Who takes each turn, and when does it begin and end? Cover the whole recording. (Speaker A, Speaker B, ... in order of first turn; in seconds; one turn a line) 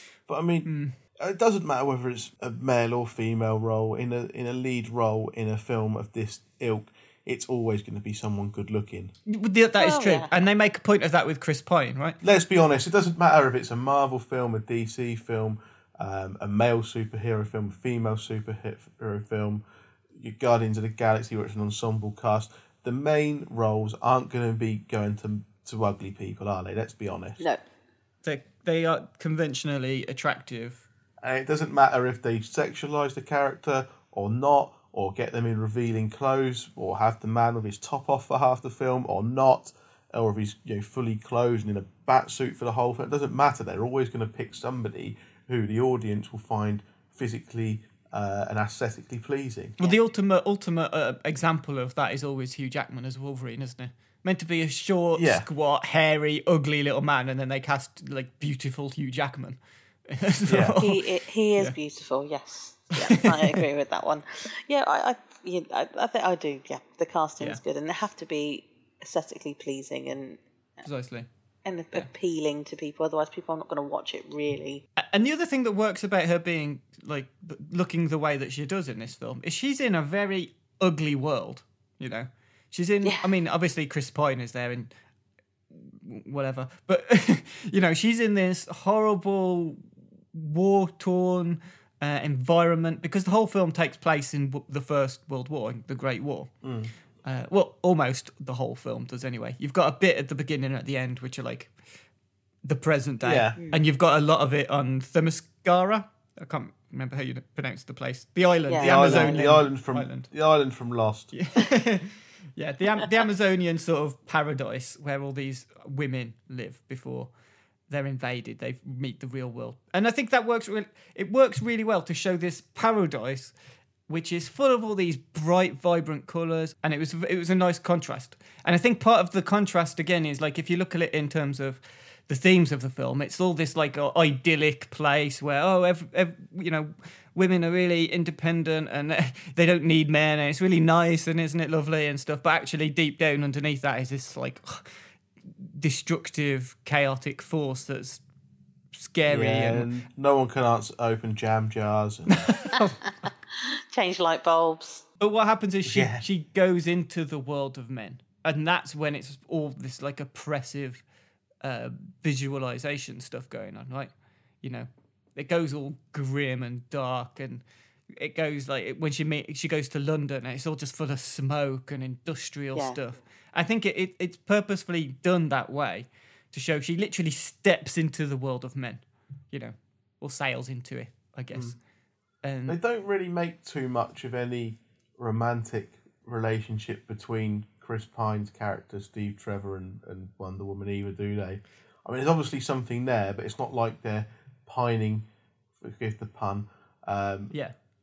Speaker A: 0.3-9.1
Speaker B: 0.6-0.9
Speaker B: 9.3-12.2
Speaker C: 9.8-10.3
Speaker A: 12.2-27.4
Speaker B: 28.2-30.8
Speaker A: 31.2-49.8
Speaker B: 49.8-61.0
Speaker A: 55.1-55.5
Speaker A: 60.5-60.8
Speaker C: 60.8-70.4
Speaker B: 63.0-63.6
Speaker B: 70.8-71.3
Speaker C: 71.6-74.8
Speaker B: 75.0-84.9
Speaker B: 85.7-89.8
Speaker B: 90.3-96.5
Speaker A: 96.6-96.9
Speaker B: 97.2-101.7
Speaker B: 102.6-110.3
Speaker A: 103.2-103.6
Speaker C: 108.7-109.5
Speaker A: 108.8-111.3
Speaker B: 111.3-117.3
Speaker B: 117.9-123.5
Speaker B: 124.1-144.9
Speaker B: 145.6-148.2
Speaker B: 148.9-149.9
Speaker A: 149.3-152.6
Speaker B: 152.3-153.0
Speaker C: 153.6-155.1
Speaker B: 155.2-161.0
Speaker A: 155.8-156.2
Speaker B: 161.6-181.8
Speaker B: 182.4-182.8
Speaker A: 182.7-195.3
Speaker A: 195.8-197.5